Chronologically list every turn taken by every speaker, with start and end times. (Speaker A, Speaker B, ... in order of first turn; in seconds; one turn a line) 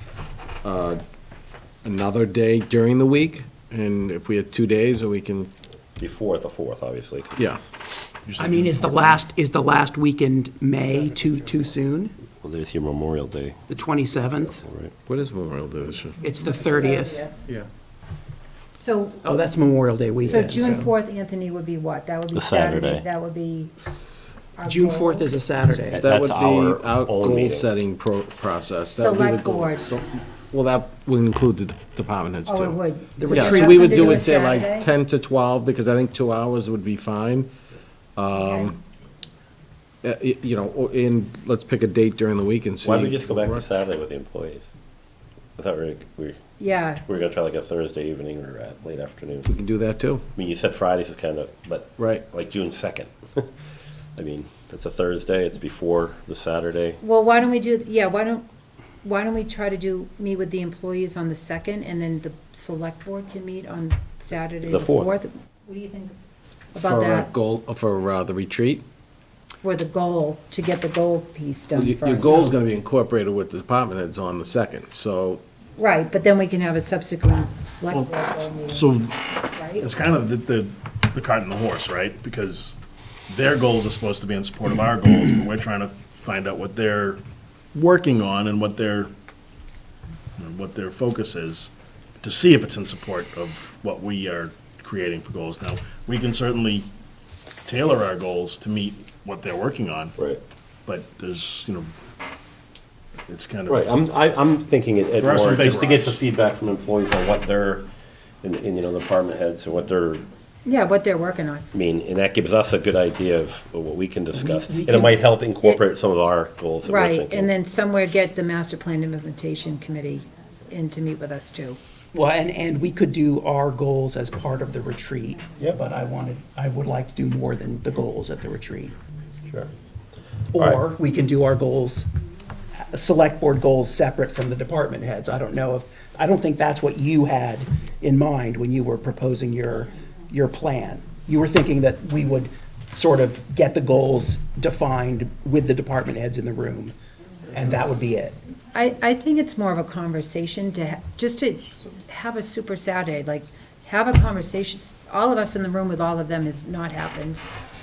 Speaker A: 0.6-1.0
Speaker A: 1.8-5.5
Speaker B: 6.0-7.4
Speaker C: 8.2-9.0
Speaker D: 8.4-12.1
Speaker B: 12.4-13.6
Speaker D: 13.7-14.6
Speaker B: 14.4-14.9
Speaker A: 15.1-16.2
Speaker D: 16.2-17.3
Speaker E: 16.3-17.3
Speaker E: 18.7-19.7
Speaker D: 19.2-20.9
Speaker E: 20.2-23.9
Speaker B: 22.3-23.0
Speaker E: 24.6-25.4
Speaker D: 24.6-26.0
Speaker B: 25.7-27.7
Speaker A: 25.9-37.5
Speaker E: 28.8-29.9
Speaker E: 32.5-34.9
Speaker D: 33.2-34.4
Speaker A: 38.2-38.8
Speaker E: 38.3-38.7
Speaker A: 40.0-43.6
Speaker B: 42.8-44.7
Speaker B: 45.6-46.4
Speaker E: 46.6-47.0
Speaker B: 47.0-49.5
Speaker A: 49.5-50.2
Speaker B: 50.3-53.5
Speaker A: 52.0-52.2
Speaker B: 54.1-57.0
Speaker E: 57.0-58.4
Speaker E: 59.0-66.1
Speaker B: 64.6-65.1
Speaker E: 66.7-67.3
Speaker A: 66.7-68.8
Speaker E: 69.6-72.5
Speaker A: 71.7-75.4
Speaker E: 75.8-78.9
Speaker C: 77.9-87.2
Speaker E: 79.4-80.0
Speaker C: 87.7-89.1
Speaker C: 90.4-96.9
Speaker C: 97.6-100.1
Speaker C: 100.9-101.9
Speaker C: 103.3-103.9
Speaker B: 103.7-107.9
Speaker C: 105.2-106.2
Speaker B: 108.4-110.3
Speaker E: 110.6-111.7
Speaker B: 111.7-117.5
Speaker D: 114.3-115.2
Speaker E: 116.8-121.8
Speaker D: 122.1-128.9
Speaker D: 130.5-132.1
Speaker D: 132.8-146.9
Speaker D: 147.5-148.4
Speaker E: 148.7-157.5